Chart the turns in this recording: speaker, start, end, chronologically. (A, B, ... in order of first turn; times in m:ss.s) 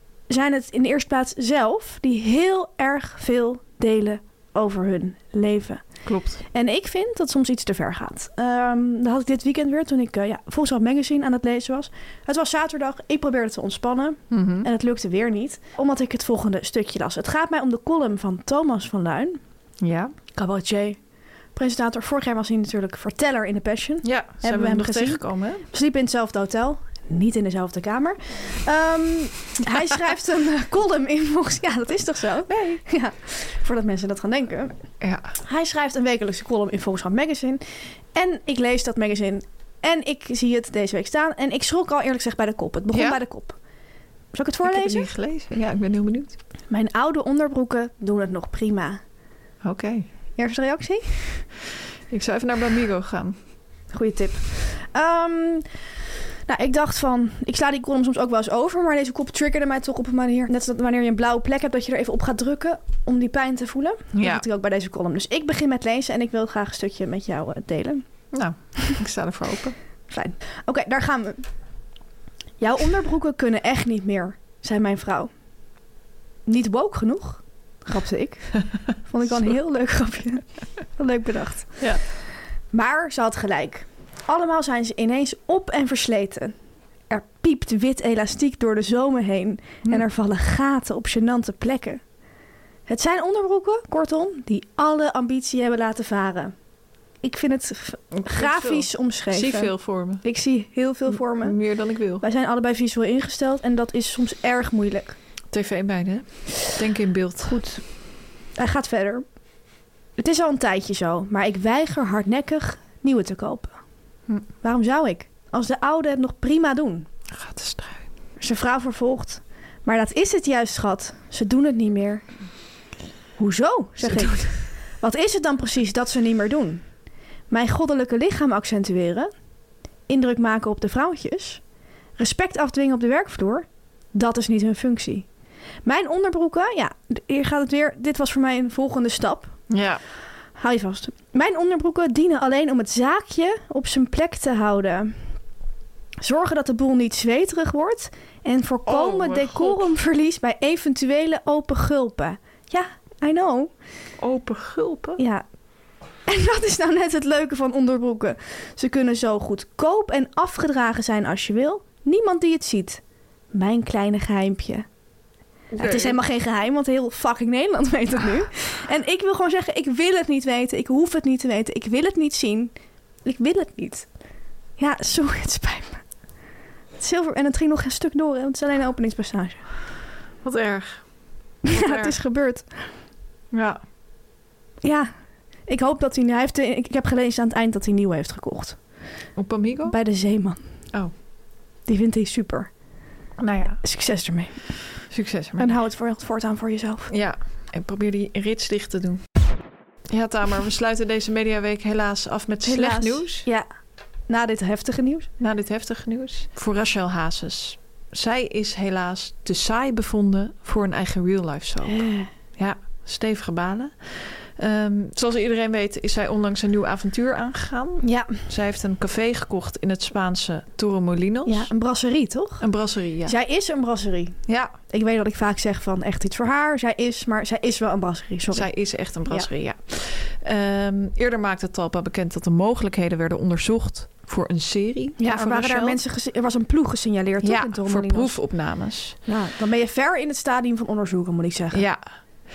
0:00.3-0:06.0 A
0:06.0-0:06.4 B
0:06.5-0:19.4 A
0:14.3-0:14.7 B
0:19.8-0:20.1 B
0:20.3-0:21.0 A
0:21.5-0:34.8 A
0:24.0-0:25.6 B
0:32.5-0:32.8 B
0:35.0-0:35.3 B
0:35.4-0:37.6 A
0:38.1-0:43.6 A
0:42.9-0:43.2 B
0:44.3-0:45.1 A
0:44.6-0:46.4 B
0:46.7-0:49.0 A
0:49.6-0:50.0 B
0:50.4-0:51.4 A
0:52.1-0:53.4 B
0:53.9-0:55.7 A
0:56.5-1:08.0 A
1:04.1-1:04.4 B
1:08.3-1:09.8 B
1:10.1-1:11.4 A
1:12.6-1:15.3 A
1:16.4-1:20.4 A
1:20.9-1:22.1 A
1:22.7-1:26.5 A
1:27.1-1:32.0 A
1:32.9-1:36.5 A
1:37.2-1:41.6 A
1:38.1-1:40.2 B
1:41.1-1:42.2 B
1:42.2-1:45.2 A
1:45.5-1:47.5 B
1:47.4-1:47.8 A
1:48.6-1:49.2 A
1:50.2-1:53.7 A
1:54.6-1:57.0 A
1:57.3-1:58.0 B
1:58.4-2:02.2 A
2:03.4-2:06.8 A
2:04.0-2:04.5 B
2:07.5-2:09.3 A
2:10.1-2:11.6 A
2:12.2-2:15.3 A
2:15.8-2:19.6 A
2:19.7-2:20.0 B
2:20.6-2:25.2 A
2:26.2-2:33.7 A
2:28.8-2:29.8 B
2:34.2-2:35.2 B
2:35.2-2:35.4 A
2:36.3-2:43.0 A
2:43.5-2:44.8 A
2:45.7-2:46.2 B
2:45.8-2:52.7 A
2:53.2-2:54.1 A
2:54.8-2:56.0 A
2:57.0-2:59.6 A
3:00.4-3:01.1 B
3:01.6-3:02.2 B
3:01.7-3:02.9 A
3:03.5-3:03.8 B
3:04.8-3:05.1 A
3:05.7-3:08.8 A
3:09.4-3:10.0 B
3:09.8-3:10.6 A
3:11.9-3:12.7 A
3:13.4-3:13.8 B
3:13.8-3:15.0 A
3:15.1-3:15.7 B
3:15.6-3:17.1 A
3:17.1-3:19.2 B
3:20.1-3:23.4 B
3:22.6-3:23.6 A
3:24.3-3:25.3 A
3:25.4-3:41.7 B
3:31.8-3:32.3 A
3:38.0-3:38.3 A
3:41.4-3:42.6 A
3:42.6-3:43.3 B
3:43.2-3:44.4 A
3:44.5-3:44.7 B
3:44.9-3:48.7 A
3:48.5-3:56.0 B
3:55.2-3:58.4 A
3:57.4-3:59.2 B
3:59.2-4:01.8 A
4:01.7-4:02.0 B